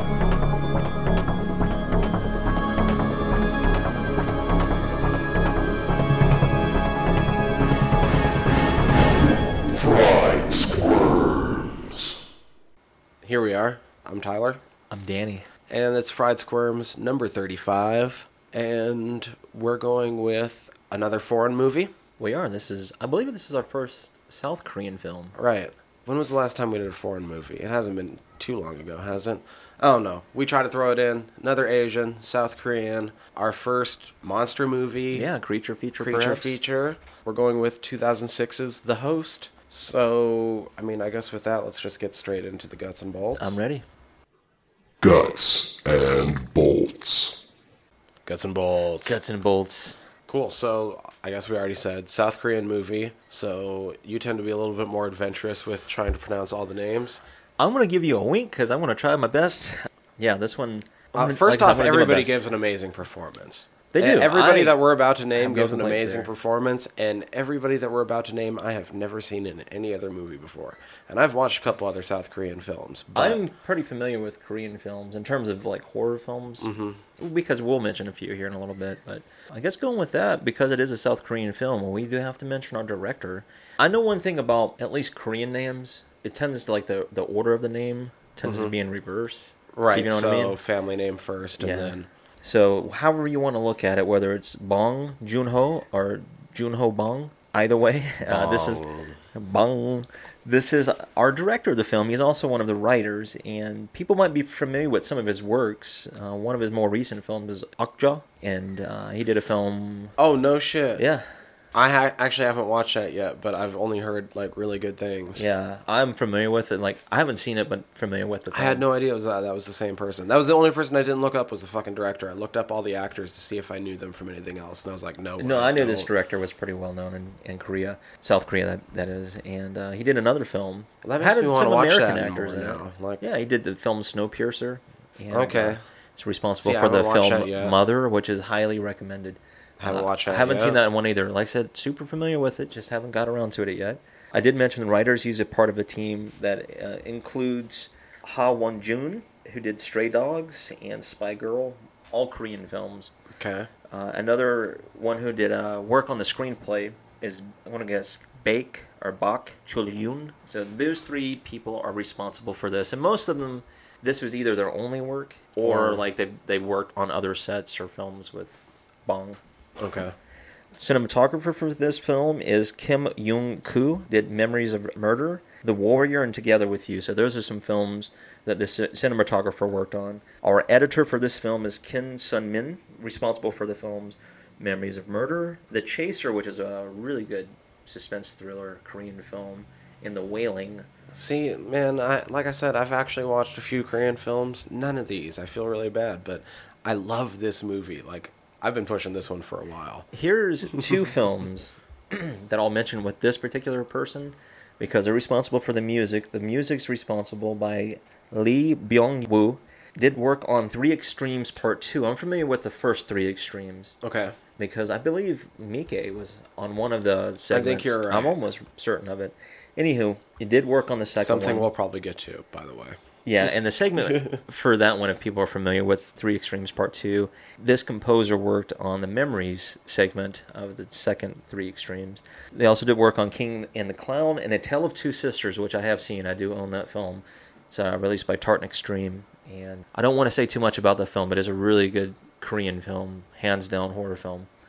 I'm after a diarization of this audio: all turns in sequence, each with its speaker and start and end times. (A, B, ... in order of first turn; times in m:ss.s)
0:09.6-0:12.2 A
0:13.2-0:14.6 B
0:14.9-0:15.5 C
0:15.7-0:21.9 B
0:22.2-0:25.3 C
0:25.3-0:35.3 B
0:35.1-0:36.6 C
0:36.0-0:43.5 B
0:43.4-0:43.8 C
0:45.0-0:47.4 A
0:48.2-0:49.2 B
0:49.0-0:50.0 C
0:50.3-0:57.2 B
0:57.6-1:02.4 C
1:01.1-1:13.4 B
1:03.9-1:04.8 C
1:05.3-1:06.3 C
1:13.1-1:30.6 C
1:16.6-1:17.0 B
1:28.4-1:28.7 B
1:29.7-1:32.1 B
1:31.6-1:50.1 C
1:38.3-1:39.2 B
1:50.2-1:51.0 B
1:51.0-1:51.2 C
1:51.7-1:55.4 B
1:55.3-1:58.8 C
1:58.5-2:06.1 B
2:05.4-2:33.1 C
2:11.0-2:13.2 B
2:15.3-2:15.8 B
2:16.6-2:17.8 B
2:19.8-2:20.8 B
2:33.3-2:33.7 B
2:33.9-2:49.4 C
2:45.6-2:46.0 B
2:49.8-2:50.1 B
2:50.8-3:10.8 C
3:11.1-3:20.1 B
3:20.1-3:34.0 C
3:20.7-3:21.0 B
3:34.0-3:34.4 B
3:34.6-3:41.7 C
3:37.5-3:38.4 B
3:41.2-3:43.0 B
3:43.2-4:04.5 C
3:44.0-3:44.4 B